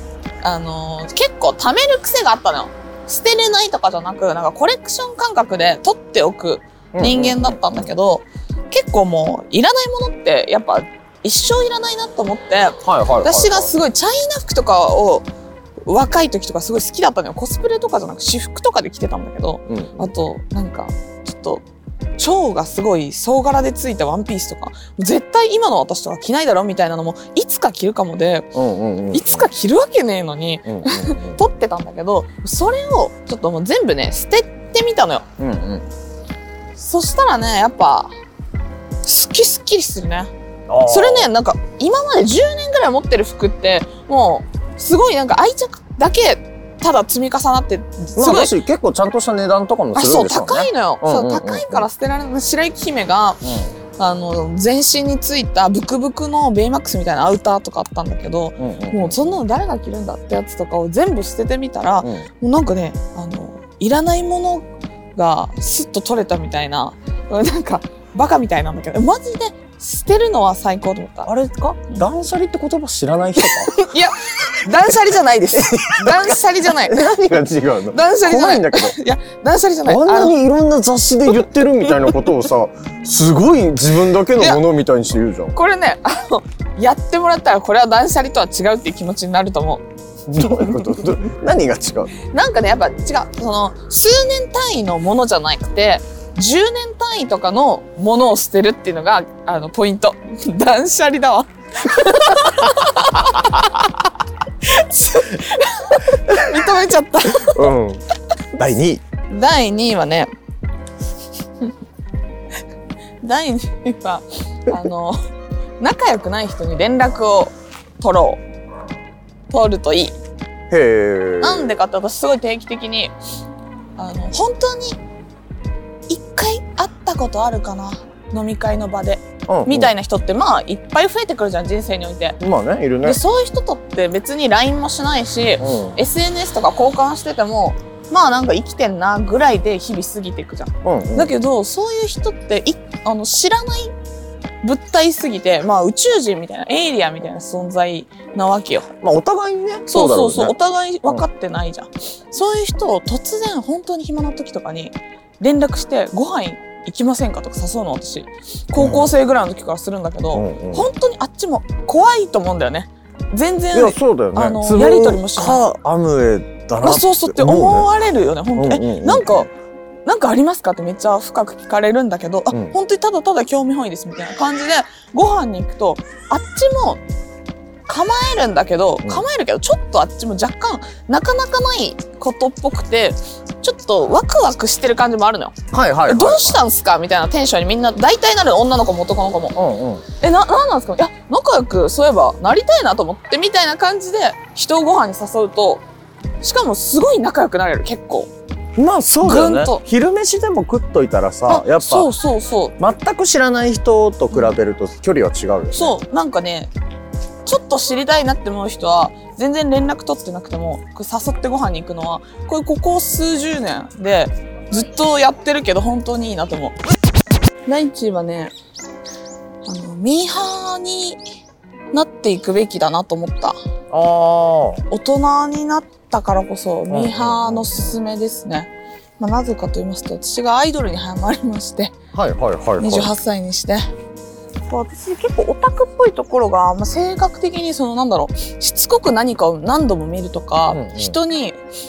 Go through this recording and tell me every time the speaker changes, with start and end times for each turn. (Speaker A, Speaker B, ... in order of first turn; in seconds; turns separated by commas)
Speaker A: 0.4-15.3, Speaker B: 6.9-7.9, Speaker B: 12.8-13.7, Speaker A: 15.8-21.6, Speaker B: 19.7-20.1, Speaker A: 22.2-28.5, Speaker B: 28.5-29.5, Speaker A: 29.1-35.2, Speaker B: 30.6-31.4, Speaker B: 35.4-35.9, Speaker A: 36.8-38.1, Speaker A: 39.0-40.3, Speaker B: 40.7-41.3, Speaker A: 40.9-48.5, Speaker B: 48.1-51.9, Speaker A: 49.9-53.5, Speaker B: 53.4-53.7, Speaker A: 54.0-71.3, Speaker B: 58.6-59.4, Speaker B: 62.0-62.3, Speaker B: 71.2-73.8, Speaker A: 73.4-77.1, Speaker B: 75.5-79.0, Speaker A: 77.9-80.3, Speaker B: 79.8-85.5, Speaker A: 85.5-89.8, Speaker B: 90.3-92.1, Speaker A: 92.2-104.0, Speaker A: 104.6-107.7, Speaker B: 107.4-108.0, Speaker B: 108.5-109.0, Speaker A: 109.3-110.3, Speaker A: 113.2-115.2, Speaker A: 115.8-118.4, Speaker A: 119.5-120.1, Speaker B: 120.7-121.8, Speaker A: 121.4-123.1, Speaker A: 124.0-125.0, Speaker A: 126.1-132.4, Speaker B: 129.5-129.9, Speaker B: 132.4-133.2, Speaker A: 133.0-143.9, Speaker B: 135.6-136.0, Speaker B: 140.8-141.3, Speaker A: 144.6-148.9, Speaker B: 149.0-150.5, Speaker A: 149.9-165.6, Speaker B: 158.8-159.2, Speaker B: 160.3-160.9, Speaker B: 163.7-167.9, Speaker A: 166.8-169.5, Speaker B: 168.6-169.5, Speaker A: 170.1-177.0, Speaker B: 172.5-172.8, Speaker A: 177.9-189.6, Speaker B: 185.7-186.6, Speaker B: 189.5-190.0, Speaker A: 190.2-195.8, Speaker A: 196.4-198.3, Speaker B: 198.8-202.1, Speaker A: 199.2-199.8, Speaker A: 201.5-202.8, Speaker B: 202.8-205.9, Speaker A: 205.7-206.7, Speaker A: 207.4-216.8, Speaker A: 217.7-218.5, Speaker A: 219.6-221.2, Speaker A: 221.9-223.6, Speaker B: 223.9-224.8, Speaker A: 224.9-231.9, Speaker B: 226.9-228.0, Speaker B: 232.1-233.1, Speaker A: 232.8-233.9, Speaker A: 234.7-241.6, Speaker B: 240.7-241.2